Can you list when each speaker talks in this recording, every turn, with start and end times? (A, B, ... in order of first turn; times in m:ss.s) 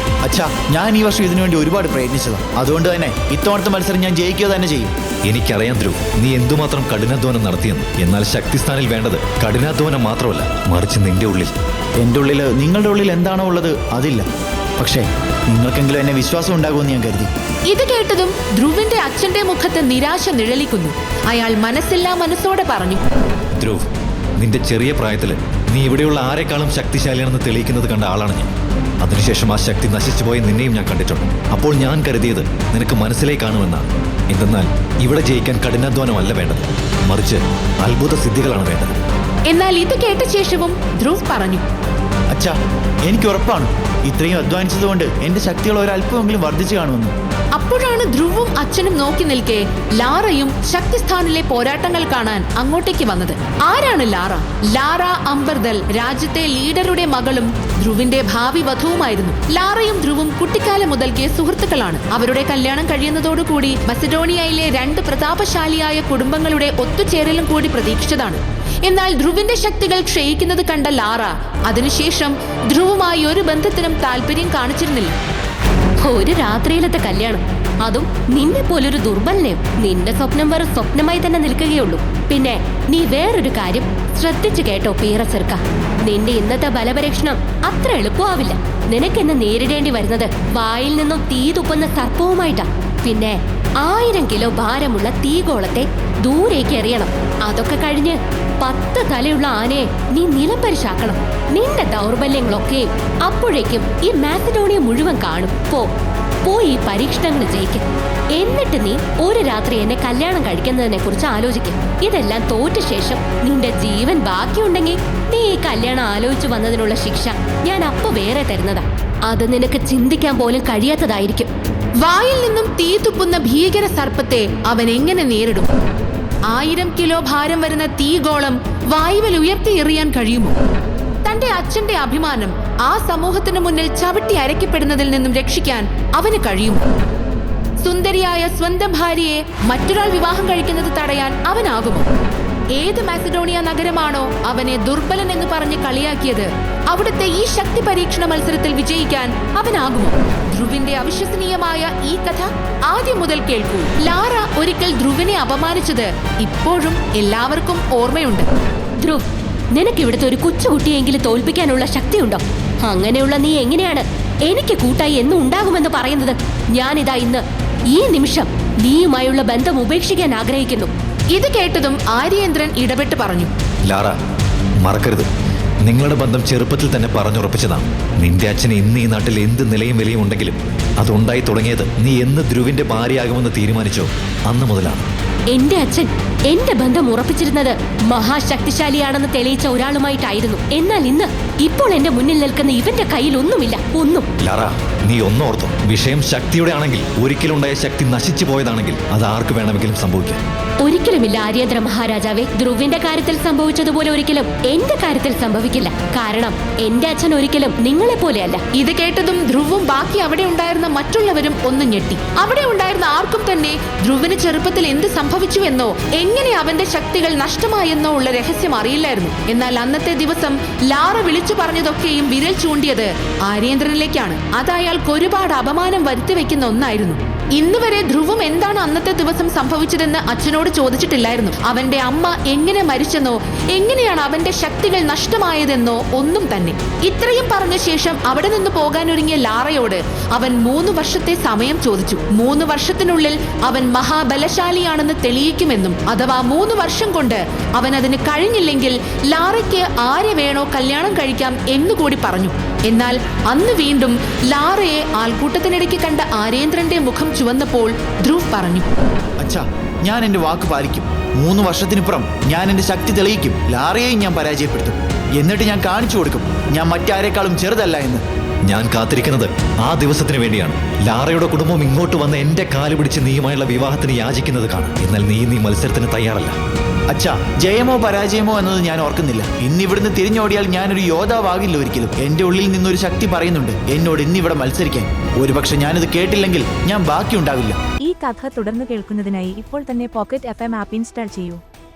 0:00.2-0:04.9 A
0:05.2-0:11.5 B
0:12.0-0:14.3 A
0:14.8-0:17.3 A
0:17.7-0:23.0 C
0:23.6-0:23.8 B
0:24.4-0:28.5 B
0:29.0-0:38.9 B
0:39.5-0:41.6 C
0:42.3-0:47.1 A
0:47.6-1:15.1 C
1:16.0-1:45.9 D
1:46.4-2:01.5 D
2:02.0-2:05.7 C
2:06.5-2:10.6 C
2:11.2-2:16.8 C
2:17.8-2:22.1 C
2:22.7-2:38.5 C
2:39.0-2:50.9 D
2:51.3-2:53.5 C
2:53.9-2:54.2 B
2:54.8-2:55.3 B
2:55.8-3:05.1 B
3:05.5-3:14.3 D
3:14.4-3:20.4 B
3:20.8-3:28.6 D
3:28.8-4:18.9 C
4:19.4-4:28.2 A
4:28.7-4:36.6 B
4:37.1-4:47.8 A
4:48.0-4:51.6 E